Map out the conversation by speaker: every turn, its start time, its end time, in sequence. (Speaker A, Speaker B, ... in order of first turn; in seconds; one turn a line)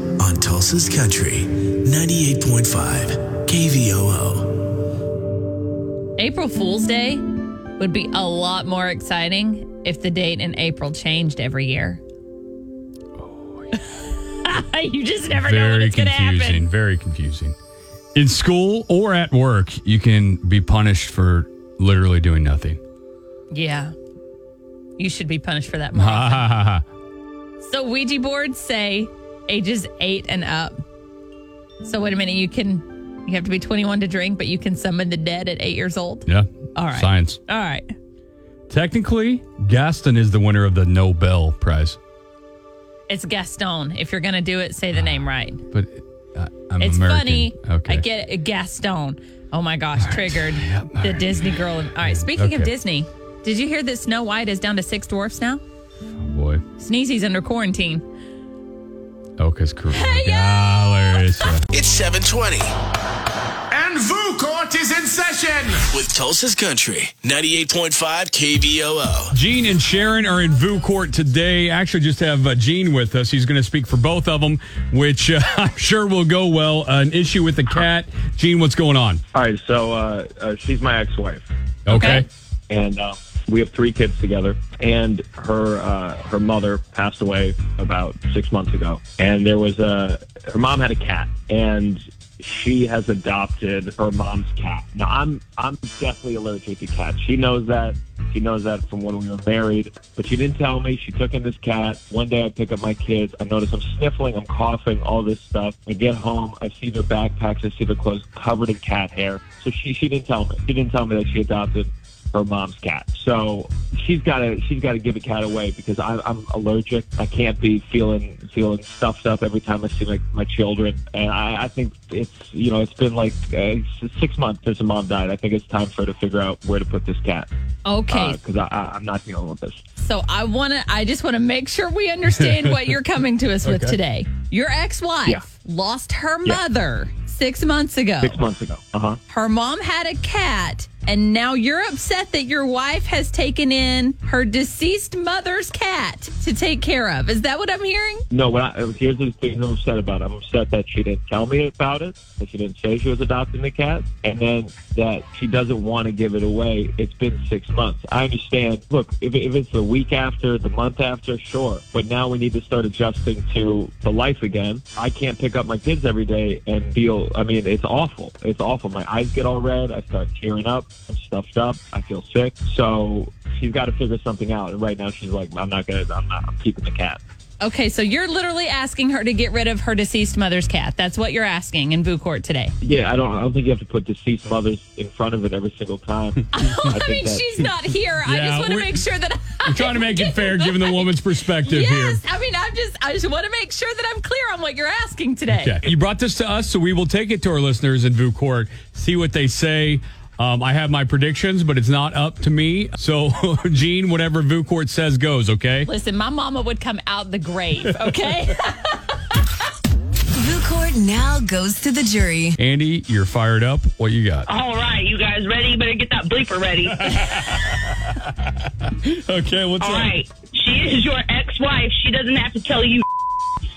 Speaker A: 0.2-4.5
Speaker B: 6.2-7.2
Speaker B: 7.8-12.0
Speaker C: 13.2-13.8
Speaker B: 13.9-16.7
Speaker C: 15.3-17.6
Speaker C: 18.1-22.8
Speaker B: 23.5-23.9
Speaker B: 25.0-26.5
Speaker C: 25.9-26.8
Speaker B: 27.6-30.8
Speaker B: 31.8-37.9
Speaker C: 36.3-37.4
Speaker C: 38.7-42.0
Speaker B: 43.1-45.6
Speaker C: 45.7-48.0
Speaker B: 46.8-55.6
Speaker C: 50.0-52.7
Speaker C: 56.2-56.6
Speaker B: 56.8-58.0
Speaker C: 59.4-61.6
Speaker B: 59.9-61.5
Speaker A: 61.7-62.7
Speaker D: 63.7-65.8
Speaker A: 65.9-69.3
Speaker C: 69.3-79.2
Speaker E: 79.3-81.4
Speaker C: 81.9-82.3
Speaker B: 81.9-82.2
Speaker E: 82.7-127.5
Speaker B: 127.9-128.4
Speaker E: 128.1-129.8
Speaker B: 130.0-138.4
Speaker C: 133.7-133.9
Speaker E: 138.2-139.2
Speaker B: 139.3-148.2
Speaker E: 148.3-177.2
Speaker B: 177.6-182.7
Speaker E: 182.8-187.7
Speaker B: 186.5-195.8
Speaker C: 188.2-189.0
Speaker C: 189.6-192.2
Speaker C: 195.5-205.9
Speaker B: 205.9-209.3
Speaker F: 210.3-212.6
Speaker C: 212.6-214.5
Speaker G: 214.4-217.1
Speaker C: 217.0-218.2
Speaker C: 219.0-220.1
Speaker G: 219.8-223.0